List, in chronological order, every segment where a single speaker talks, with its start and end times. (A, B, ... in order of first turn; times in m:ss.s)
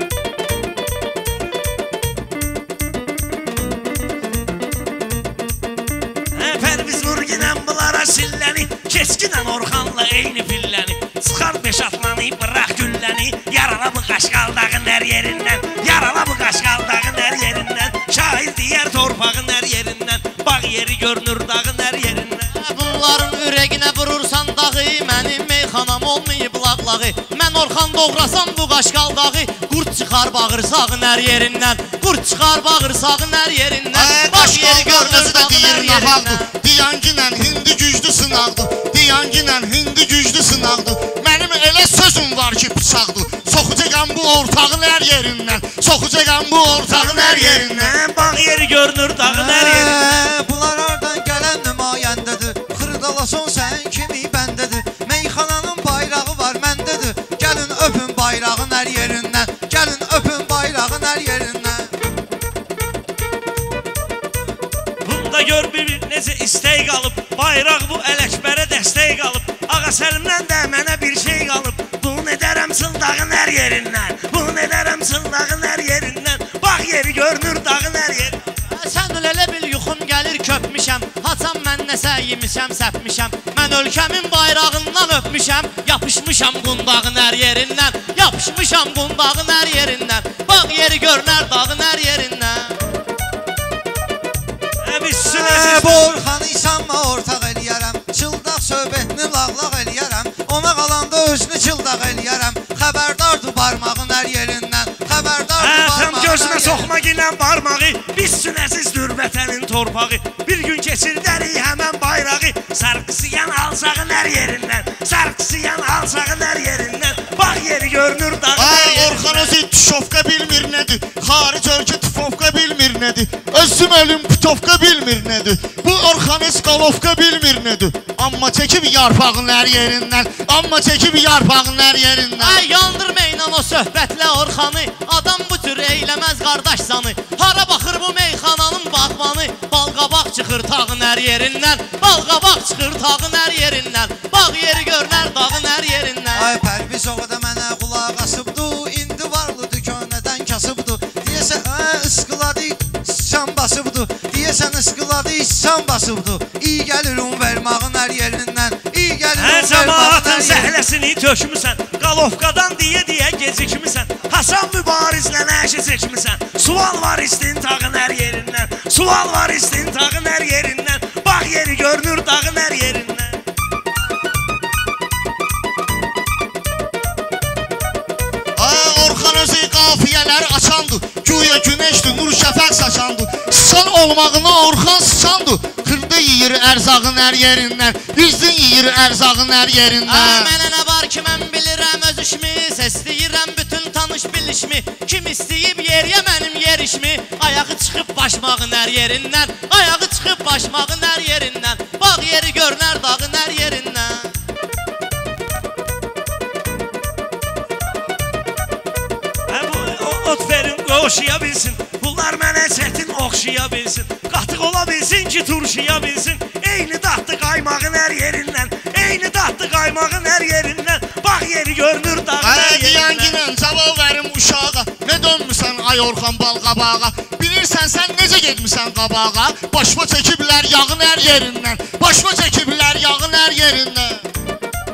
0:06.3-0:22.5 A
0:22.5-0:36.5 B
0:33.9-0:48.0 C
0:46.8-0:50.3 A
0:49.2-1:01.9 D
1:05.0-1:18.4 A
1:18.7-1:32.8 B
1:34.8-1:36.2 A
1:35.2-1:46.9 D
1:45.6-1:59.6 A
1:58.6-2:12.6 C
2:12.4-2:26.5 B
2:26.3-2:40.8 D
2:39.4-2:53.4 A
2:58.6-3:10.5 C
3:10.1-3:24.3 B
3:29.5-3:43.4 A
3:42.4-3:54.3 C